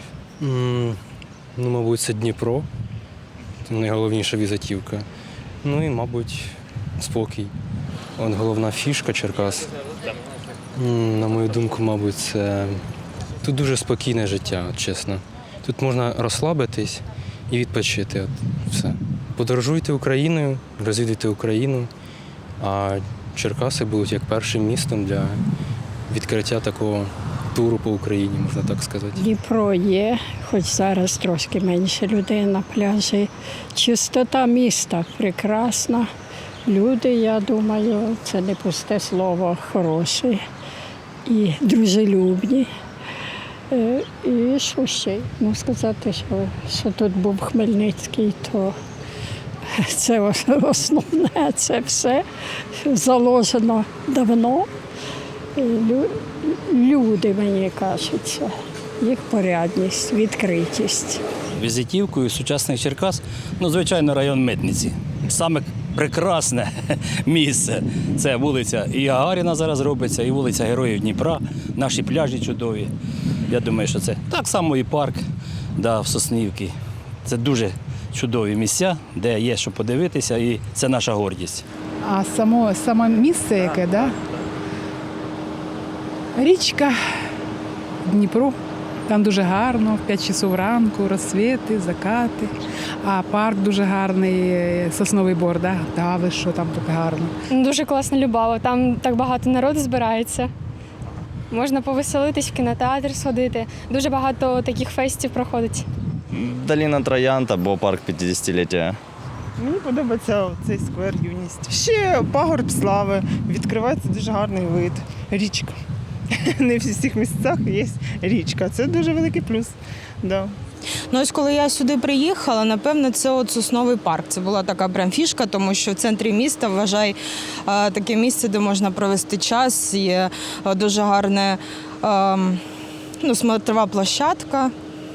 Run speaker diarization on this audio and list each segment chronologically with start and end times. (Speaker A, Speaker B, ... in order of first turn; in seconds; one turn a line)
Speaker A: 0.4-1.0
Speaker A: 1.6-2.7
Speaker A: 3.6-5.0
Speaker A: 5.6-7.5
Speaker A: 8.2-9.7
Speaker A: 10.8-12.8
Speaker A: 13.4-21.9
Speaker A: 22.6-25.4
Speaker A: 26.1-29.2
Speaker B: 29.2-36.1
Speaker B: 36.7-40.4
Speaker B: 41.3-42.7
Speaker B: 43.7-48.8
Speaker B: 49.7-52.2
Speaker B: 52.8-54.7
Speaker B: 55.6-61.2
Speaker C: 61.6-72.9
Speaker C: 73.5-75.2
Speaker C: 75.8-76.7
Speaker C: 77.2-81.7
Speaker D: 82.1-84.1
Speaker D: 86.4-87.0
Speaker D: 88.1-88.5
Speaker D: 89.1-92.5
Speaker D: 93.0-97.3
Speaker E: 97.5-100.5
Speaker E: 101.5-105.8
Speaker F: 106.3-109.0
Speaker G: 109.6-115.8
Speaker G: 116.4-120.5
Speaker H: 121.1-132.6
Speaker H: 133.2-134.7